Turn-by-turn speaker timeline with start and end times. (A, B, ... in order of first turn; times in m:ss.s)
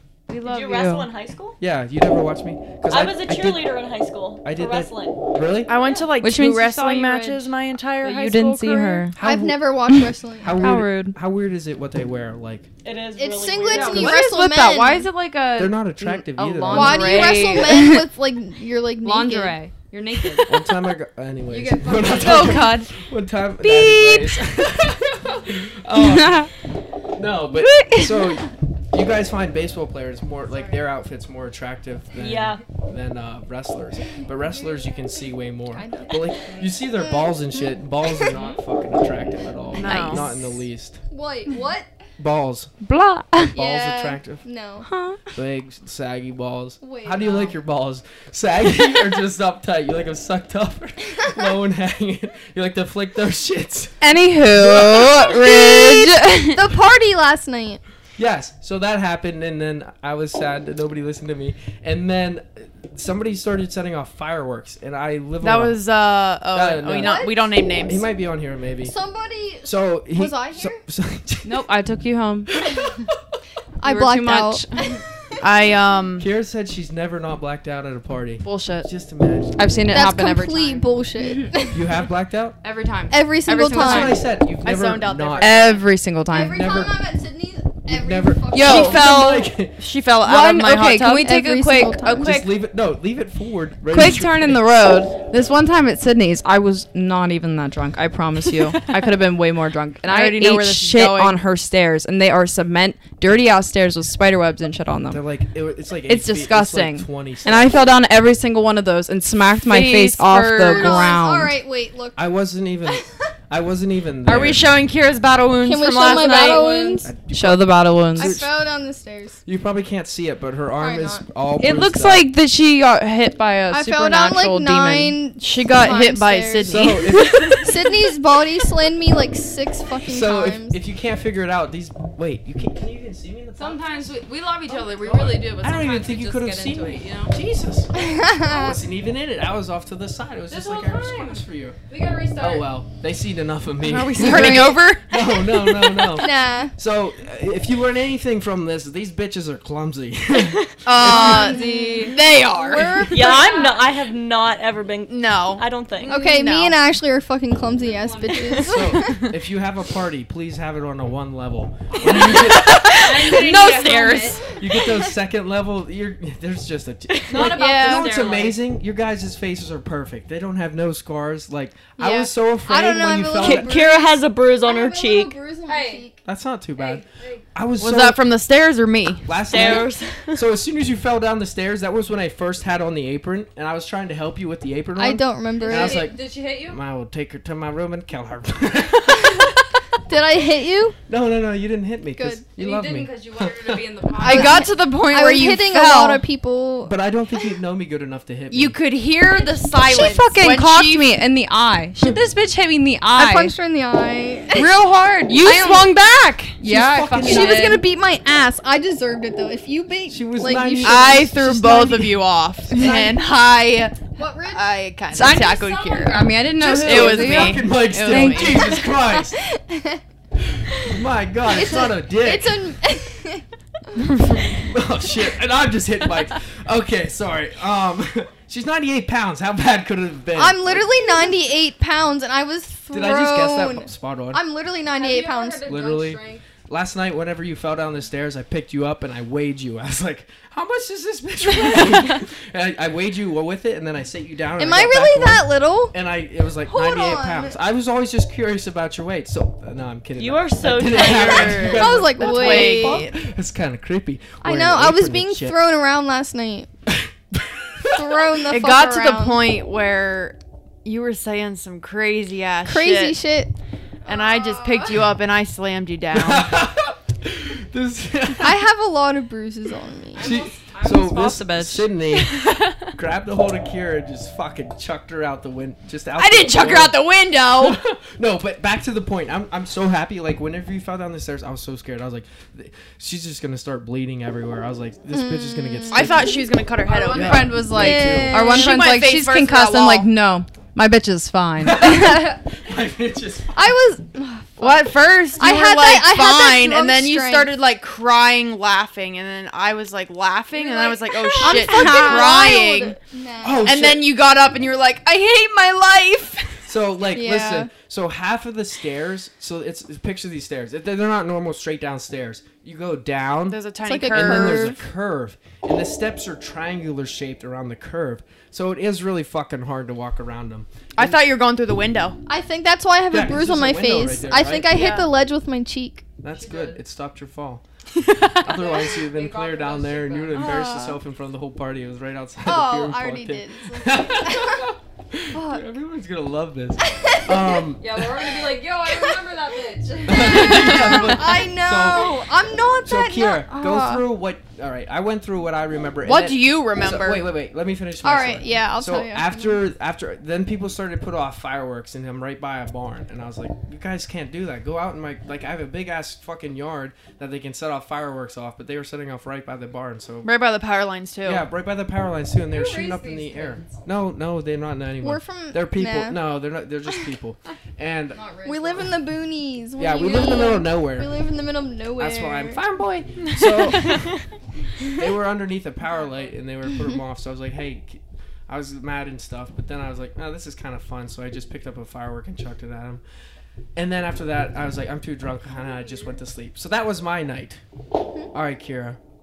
0:00.3-0:01.1 A
0:00.4-0:01.6 B
0:01.6-0:03.8 C
0:02.9-0:05.2 B
0:04.4-0:05.8 C
0:05.6-0:09.1 D
0:06.2-0:09.2 A
0:09.2-0:12.7 C
0:09.2-0:10.8 E
0:10.5-0:11.2 A
0:12.8-0:14.2 B
0:13.2-0:15.1 E
0:13.7-0:18.1 A
0:15.6-0:17.4 C
0:16.7-0:19.6 E
0:19.0-0:20.5 A
0:20.5-0:26.5 C
0:21.5-0:22.8 A
0:22.1-0:22.9 D
0:23.6-0:24.4 A
0:26.0-0:26.5 A
0:27.1-0:41.0 C
0:27.5-0:28.4 A
0:32.1-0:32.6 B
0:35.7-0:38.2 E
0:39.7-0:40.3 D
0:39.8-0:40.3 A
0:41.1-0:41.9 E
0:42.2-0:42.7 C
0:42.8-0:43.5 A
0:43.4-0:44.4 C
0:43.5-0:44.9 E
0:44.8-0:45.2 A
0:45.3-0:54.0 C
0:46.8-0:47.5 E
0:54.0-0:56.6 A
0:54.5-0:55.6 C
0:56.5-0:57.8 E
0:58.2-1:05.8 C
1:05.4-1:08.0 D
1:06.5-1:07.3 C
1:06.9-1:07.4 E
1:07.8-1:08.9 C
1:08.8-1:10.8 E
1:09.6-1:11.6 C
1:11.4-1:12.5 A
1:13.8-1:15.0 E
1:13.8-1:14.7 A
1:15.4-1:16.3 D
1:16.2-1:19.7 C
1:18.4-1:18.9 A
1:19.6-1:21.5 A
1:19.9-1:22.0 E
1:21.7-1:22.6 C
1:22.6-1:24.2 A
1:23.1-1:24.2 E
1:23.7-1:25.6 C
1:24.6-1:25.8 D
1:25.4-1:26.6 A
1:26.3-1:29.1 E
1:26.4-1:27.0 C
1:27.8-1:29.8 C
1:28.5-1:29.4 A
1:28.6-1:31.3 D
1:30.2-1:32.5 A
1:31.2-1:32.3 E
1:32.2-1:34.7 C
1:33.9-1:45.2 A
1:40.0-1:41.4 D
1:45.1-1:47.8 C
1:46.1-1:51.5 A
1:49.6-1:51.1 D
1:50.7-1:52.3 E
1:52.2-1:54.7 C
1:54.2-1:56.7 D
1:55.6-1:57.1 E
1:56.0-1:58.4 A
1:57.0-1:58.5 C
1:58.2-1:59.4 E
1:59.4-2:02.3 C
2:00.8-2:01.2 E
2:01.6-2:05.2 A
2:03.7-2:06.9 E
2:05.4-2:07.7 D
2:06.6-2:07.7 C
2:07.6-2:10.8 E
2:10.0-2:14.1 C
2:13.6-2:17.3 A
2:14.7-2:21.8 C
2:18.0-2:18.8 E
2:20.5-2:22.7 A
2:22.4-2:31.6 C
2:23.8-2:26.0 D
2:26.1-2:26.7 E
2:30.8-2:33.5 D
2:31.0-2:33.8 A
2:31.4-2:32.2 E
2:32.7-2:33.7 E
2:33.1-2:36.2 B
2:35.1-2:36.8 D
2:36.0-2:39.3 E
2:37.8-2:38.7 A
2:38.6-2:43.0 C
2:42.0-2:44.4 D
2:42.9-2:44.4 A
2:44.6-2:53.7 C
2:47.3-2:47.8 B
2:47.3-2:48.5 A
2:47.5-2:48.1 E
2:52.0-2:56.2 E
2:53.4-2:55.3 B
2:55.6-2:56.1 A
2:56.2-2:58.2 C
2:56.8-2:57.4 A
2:57.8-2:59.8 D
2:59.2-3:09.6 C
2:59.5-3:00.4 B
3:05.0-3:06.1 E
3:05.6-3:06.8 A
3:10.0-3:11.0 E
3:11.1-3:13.8 C
3:12.1-3:12.4 E
3:12.6-3:14.7 A
3:14.2-3:16.2 D
3:14.2-3:17.0 E
3:16.8-3:18.8 C
3:18.5-3:21.1 D
3:19.7-3:23.5 A
3:23.2-3:24.7 E
3:24.5-3:26.6 D
3:25.3-3:25.9 A
3:26.6-3:27.8 A
3:26.6-3:27.6 C
3:27.2-3:31.3 E
3:30.1-3:33.2 C
3:30.8-3:38.6 D
3:34.2-3:34.7 E
3:35.1-3:38.8 A
3:36.6-3:39.4 C
3:38.6-3:40.0 E
3:40.5-3:42.6 C
3:41.5-3:43.4 E
3:44.4-3:51.2 C
3:50.3-3:55.9 E
3:52.9-3:54.4 C
3:54.9-3:56.4 A
3:55.6-4:15.6 C
4:04.6-4:05.9 E
4:06.6-4:07.5 E
4:10.2-4:11.8 B
4:10.8-4:13.1 D
4:11.6-4:13.1 E
4:14.4-4:16.7 E
4:16.9-4:18.0 C
4:17.8-4:19.4 E
4:18.5-4:23.2 D
4:22.6-4:23.5 E
4:24.0-4:25.1 E
4:24.0-4:26.7 D
4:26.1-4:28.6 C
4:28.4-4:30.4 E
4:30.1-4:31.9 A
4:30.2-4:46.4 C
4:32.2-4:32.9 D
4:36.2-4:37.8 D
4:45.1-4:46.4 E
4:45.9-4:47.6 D
4:46.8-4:52.4 A
4:47.1-4:48.4 C
4:47.6-4:48.8 E
4:48.3-4:50.1 D
4:51.6-4:53.8 C
4:53.6-4:54.8 E
4:54.6-5:03.0 D
4:55.4-4:57.5 E
5:00.5-5:03.9 E
5:01.4-5:02.7 A
5:03.4-5:04.2 C
5:03.6-5:06.6 D
5:06.6-5:21.2 C
5:07.1-5:07.7 E
5:13.5-5:14.7 D
5:13.8-5:14.8 E
5:21.0-5:22.2 D
5:22.2-5:26.1 E
5:23.1-5:24.8 C
5:24.7-5:25.1 D
5:26.2-5:27.6 C
5:26.3-5:26.8 A
5:28.0-5:28.4 D
5:28.4-5:38.4 C
5:28.5-5:30.6 A
5:30.3-5:30.9 E
5:30.4-5:30.8 D
5:32.4-5:34.7 E
5:35.3-5:35.6 E
5:36.9-5:37.3 E
5:37.8-5:40.7 A
5:40.0-5:42.2 C
5:40.2-5:44.0 E
5:42.8-6:00.4 C
5:46.0-5:47.3 D
5:48.0-5:49.6 E
6:00.2-6:01.5 D
6:01.2-6:08.2 C
6:02.5-6:03.8 A
6:05.0-6:06.2 E
6:08.1-6:08.9 A
6:08.4-6:12.6 E
6:09.8-6:11.2 C
6:12.0-6:14.1 C
6:13.3-6:13.9 D
6:14.8-6:23.0 C
6:23.7-6:27.6 C
6:28.3-6:29.0 C